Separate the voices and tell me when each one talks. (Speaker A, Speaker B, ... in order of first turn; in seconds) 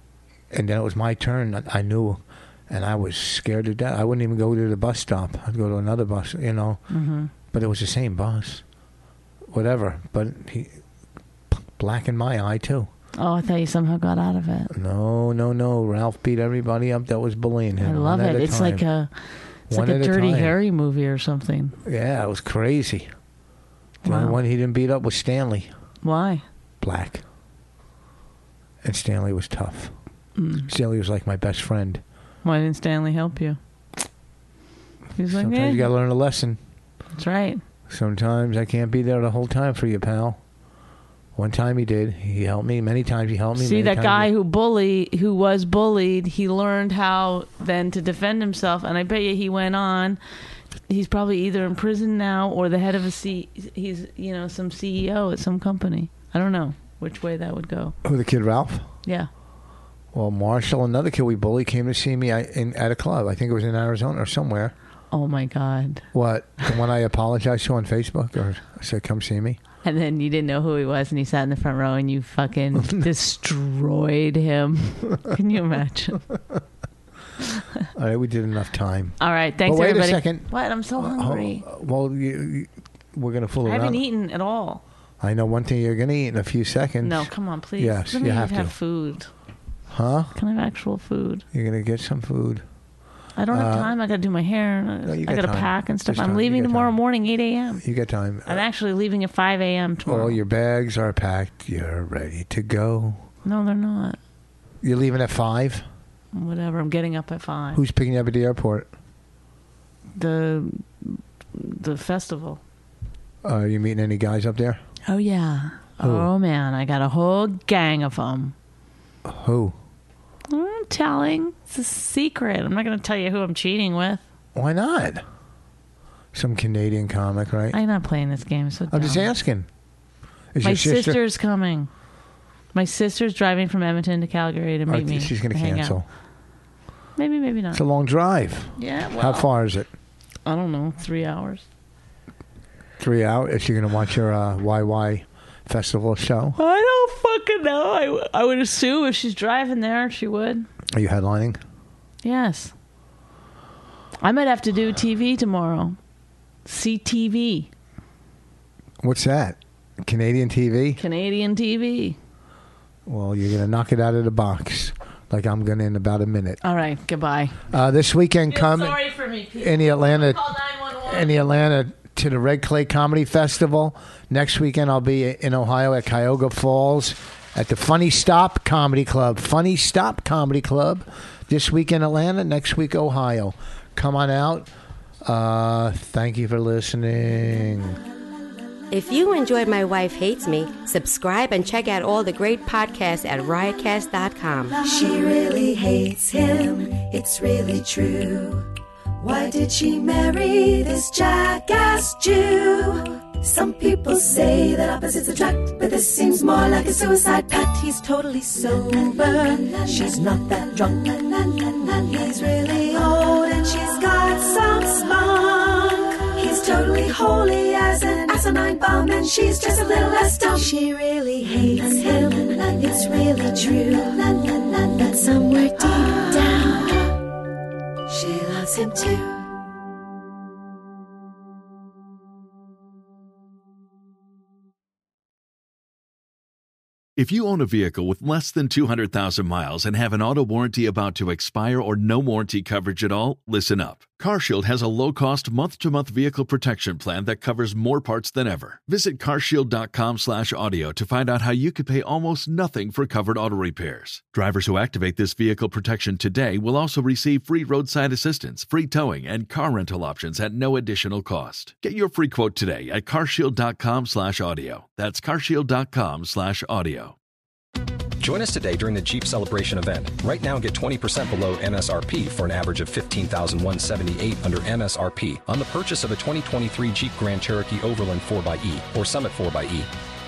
Speaker A: 0.5-6.8, 7.5-8.6, 9.5-10.8, 11.5-12.9, 14.7-18.8, 19.7-20.6, 21.8-23.1, 24.0-25.7, 26.8-27.2, 28.8-29.9, 30.7-32.0, 35.3-36.6, 37.9-40.4, 41.3-44.3, 58.0-58.9, 60.1-64.7, 66.1-69.6, 72.8-73.1, 77.9-84.0, 85.2-88.7, 89.9-90.3, 91.5-92.6, 93.5-93.9, 95.0-97.0, 97.8-98.6, 100.0-103.2, 104.8-105.8, 107.7-108.9, 113.4-114.8, 116.0-116.3, 119.2-119.8, 124.5-125.2, 126.3-127.8, 128.9-129.7, 130.5-131.2, 134.9-136.1, 137.7-139.9, 143.0-146.6, 150.9-151.6, 159.0-161.0, 163.1-166.6, 167.7-169.0, 169.6-170.4, 171.0-184.7, 185.2-188.0
Speaker B: 6.9-7.3, 13.2-14.7, 17.8-19.1, 19.7-21.8, 24.0-24.4, 26.0-26.4, 30.4-30.7, 32.4-33.6, 35.2-35.9, 37.1-37.6, 43.5-50.2, 50.9-57.9, 65.1-66.0, 69.8-76.2, 79.2-81.7, 83.6-84.8, 87.0-89.3, 90.3-91.4, 93.4-97.8, 98.5-100.4, 103.4-104.2, 106.3-107.8, 110.2-112.6, 115.0-118.5, 120.5-124.2, 127.7-129.3, 130.6-131.9, 132.7-136.0, 137.2-137.8, 138.8-139.5, 140.4-141.6, 146.6-150.7, 152.2-152.7, 154.2-156.0, 156.7-157.7, 161.0-162.2, 166.6-167.6, 168.5-171.3
Speaker C: 188.9-194.8
Speaker D: 194.8-198.7, 199.2-227.3, 228.1-229.5
Speaker E: 237.2-267.1
Speaker F: 268.2-279.9